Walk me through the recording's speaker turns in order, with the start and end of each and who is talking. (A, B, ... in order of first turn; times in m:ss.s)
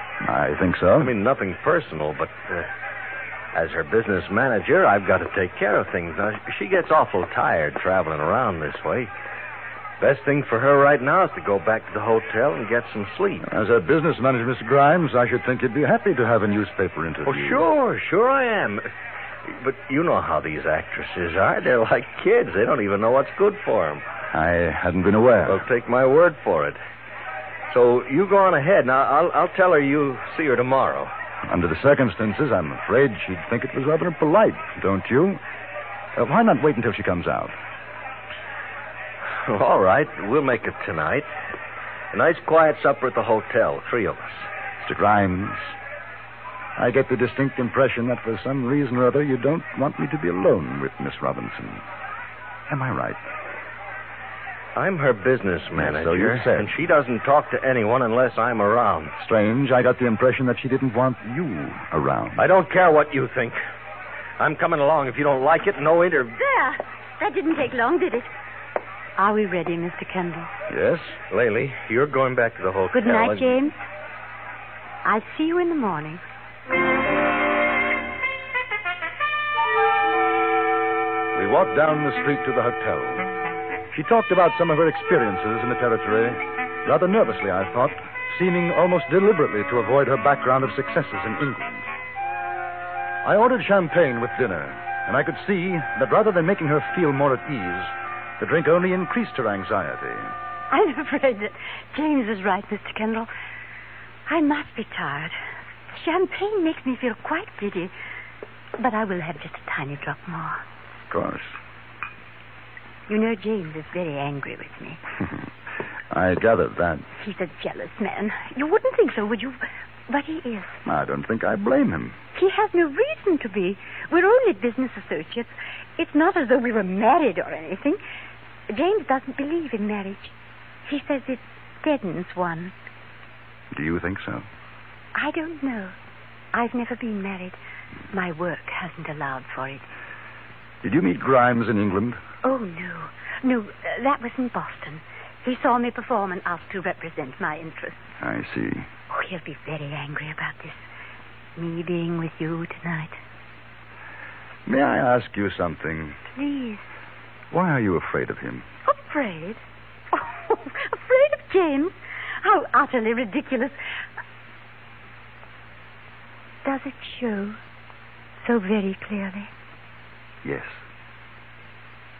0:00.2-0:01.1 A
0:01.0-0:02.7 B
0:03.5-0:09.1 B
0:10.0-0:13.5 B
0:13.4-0:17.6 A
0:17.2-0:18.9 B
0:19.5-0:24.0 B
0:24.3-0:25.6 A
0:25.4-0:26.8 B
0:27.7-0:31.1 B
0:31.5-0:35.4 A
0:36.2-0:37.6 A
0:39.4-0:41.3 B
0:42.1-0:44.5 B
0:44.8-0:45.8 A
0:46.8-0:51.8 A
0:52.7-0:53.2 A
0:54.8-0:59.2 B
0:55.8-0:56.7 A
0:59.2-1:02.4 A
1:02.4-1:03.6 B
1:04.4-1:06.4 B
1:06.4-1:08.3 C
1:09.2-1:10.5 C
1:10.7-1:11.2 A
1:11.3-1:13.6 B
1:12.9-1:13.8 C
1:15.0-1:16.2 C
1:21.3-1:23.3 A
1:23.9-1:31.9 A
1:33.2-1:40.3 A
1:40.7-1:43.3 C
1:44.3-1:45.4 C
1:45.9-1:47.9 C
1:48.8-1:50.6 C
1:51.1-1:51.6 A
1:53.1-1:55.0 C
1:56.1-1:57.1 A
1:57.2-2:00.8 C
2:00.8-2:02.2 A
2:02.4-2:08.0 C
2:08.7-2:10.3 C
2:10.9-2:12.7 C
2:13.7-2:14.4 A
2:15.2-2:16.0 C
2:16.5-2:17.6 C
2:18.1-2:19.8 C
2:20.8-2:22.2 A
2:22.4-2:28.0 C
2:28.2-2:28.9 A
2:29.1-2:30.8 C
2:31.6-2:33.2 C
2:34.7-2:36.2 A
2:36.3-2:36.8 C
2:37.5-2:38.7 A
2:38.8-2:39.6 C
2:40.1-2:43.8 C
2:46.6-2:47.6 C
2:48.4-2:49.5 C
2:50.4-2:50.8 A